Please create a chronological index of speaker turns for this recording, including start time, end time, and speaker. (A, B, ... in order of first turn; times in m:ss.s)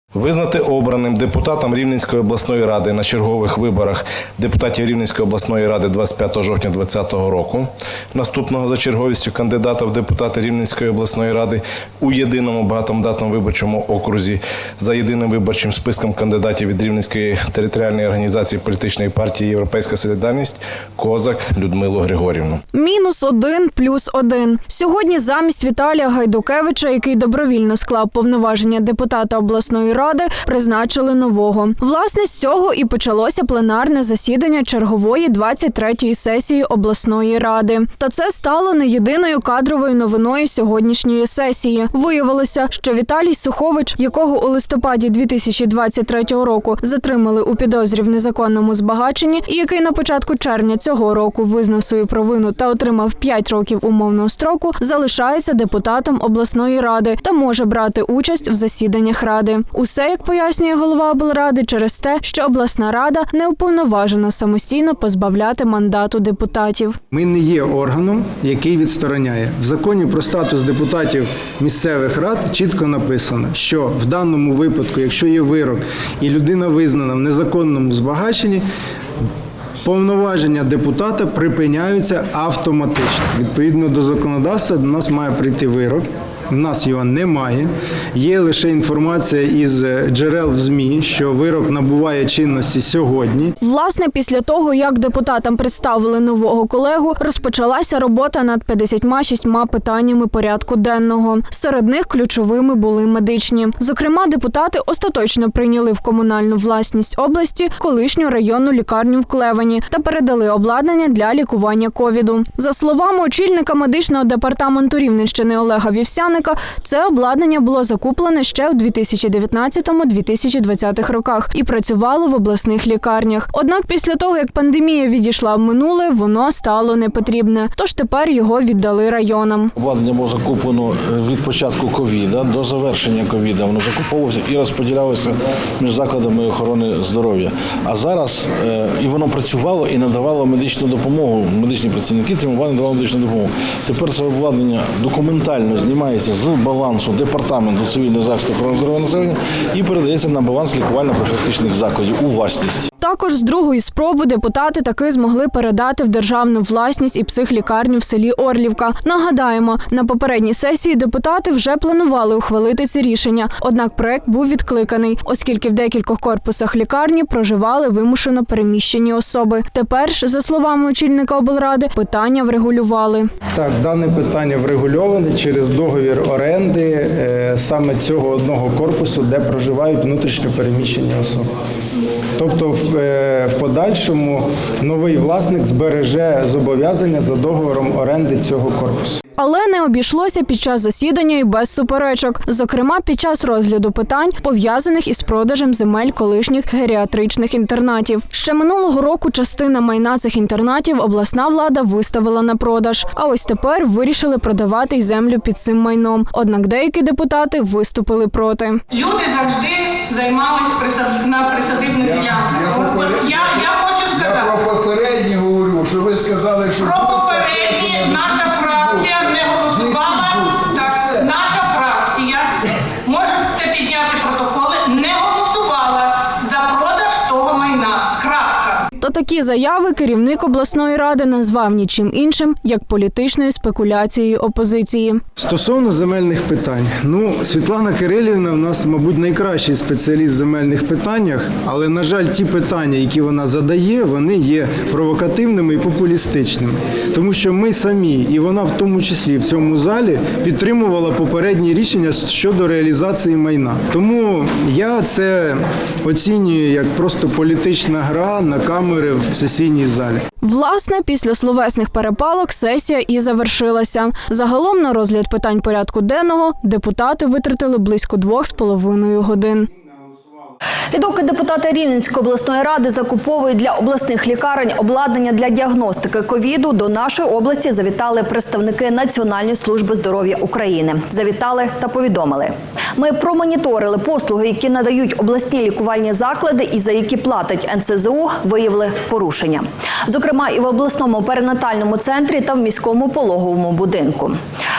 0:00.1-0:22.6 A
0:22.7-1:07.0 B
1:07.1-1:18.6 C
1:19.8-1:33.6 C
1:33.6-2:09.7 B
2:09.8-2:32.9 D
2:33.0-2:53.3 B
2:53.5-3:01.5 C
3:02.4-3:09.2 C
3:09.4-3:28.8 B
3:28.9-3:34.6 E
3:32.0-3:33.5 F
3:34.1-3:41.2 F
3:36.8-3:48.9 E
3:49.0-3:55.2 B
3:55.4-4:20.2 C
4:20.4-4:29.7 B
4:30.9-4:54.4 G